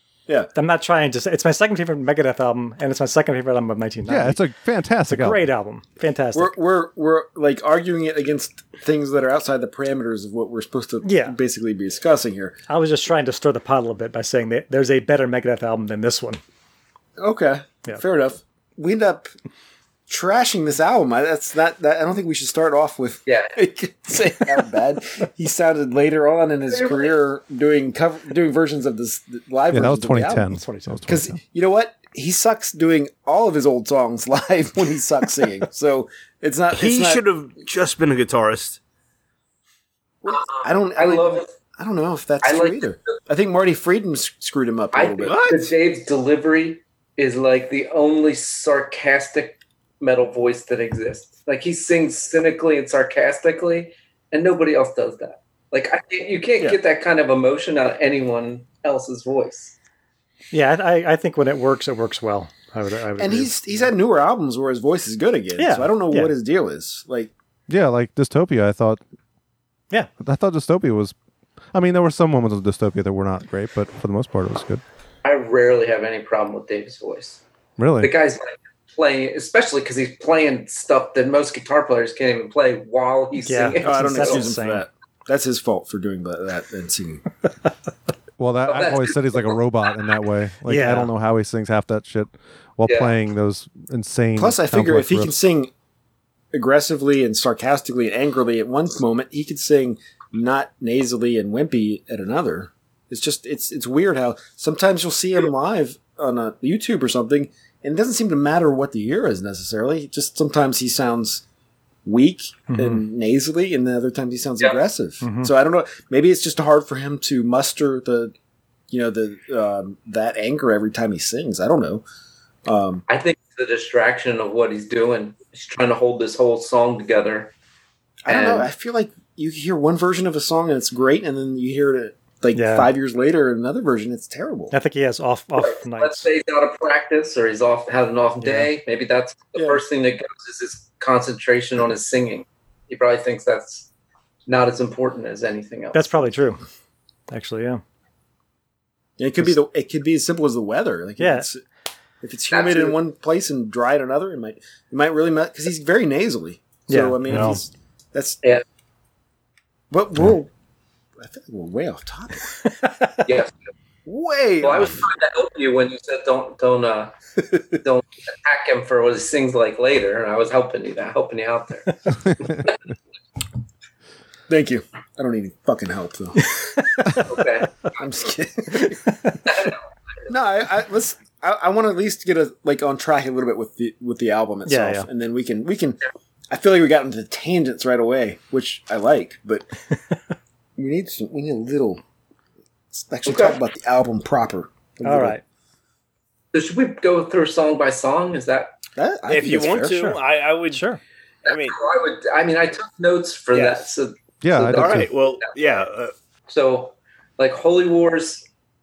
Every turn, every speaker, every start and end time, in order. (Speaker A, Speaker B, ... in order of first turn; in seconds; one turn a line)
Speaker A: 0.6-4.4
Speaker B: 4.1-5.5
Speaker A: 5.1-6.6
Speaker C: 6.3-12.6
Speaker A: 11.0-11.4
Speaker A: 12.7-16.4
Speaker C: 17.2-19.3
Speaker C: 20.1-30.5
Speaker D: 23.3-23.5
Speaker D: 26.7-27.2
Speaker B: 29.7-31.4
Speaker A: 30.5-31.1
Speaker C: 31.1-37.2
Speaker E: 36.7-38.8
Speaker C: 40.2-45.4
Speaker D: 40.3-41.5
Speaker D: 42.4-43.1
Speaker D: 44.9-59.8
Speaker E: 45.2-45.7
Speaker A: 60.5-63.6
Speaker C: 63.2-67.3
Speaker A: 65.6-66.3
Speaker B: 67.7-69.0
Speaker B: 70.2-71.2
Speaker B: 71.7-74.8
Speaker D: 75.2-77.4
Speaker B: 77.8-78.1
Speaker D: 78.0-84.5
Speaker A: 83.4-84.9
Speaker C: 83.8-87.2
Speaker B: 88.4-95.4
Speaker D: 88.7-89.6
Speaker A: 90.7-91.1
Speaker D: 92.9-93.2
Speaker C: 94.4-95.7
Speaker C: 96.5-111.4
Speaker C: 112.0-118.3
Speaker A: 112.7-113.0
Speaker A: 115.2-115.5
Speaker C: 118.9-122.0
Speaker C: 122.7-123.0
Speaker D: 123.1-127.5
Speaker C: 128.2-134.7
Speaker D: 128.3-128.7
Speaker A: 132.5-132.9
Speaker A: 134.7-136.3
Speaker D: 135.6-143.9
Speaker A: 138.4-138.7
Speaker C: 139.6-139.8
Speaker D: 144.5-146.2
Speaker A: 145.9-146.6
Speaker A: 147.3-147.8
Speaker C: 149.2-151.6
Speaker A: 151.2-151.5
Speaker C: 152.2-158.4
Speaker D: 152.5-153.0
Speaker A: 156.9-157.6
Speaker C: 159.9-160.5
Speaker C: 161.2-162.5
Speaker A: 162.8-163.1
Speaker D: 163.2-163.5
Speaker C: 164.1-165.0
Speaker D: 164.6-167.1
Speaker D: 167.8-172.7
Speaker C: 174.5-177.2
Speaker D: 177.2-177.7
Speaker C: 178.0-179.5
Speaker C: 180.3-189.7
Speaker A: 184.7-185.1
Speaker C: 190.8-192.0
Speaker C: 192.9-195.4
Speaker D: 193.3-193.6
Speaker A: 195.0-195.4
Speaker D: 196.5-198.7
Speaker C: 199.0-200.0
Speaker E: 199.3-200.9
Speaker A: 199.9-201.0
Speaker E: 201.5-201.8
Speaker D: 201.5-205.8
Speaker B: 204.4-205.1
Speaker E: 204.7-206.1
Speaker D: 206.5-208.4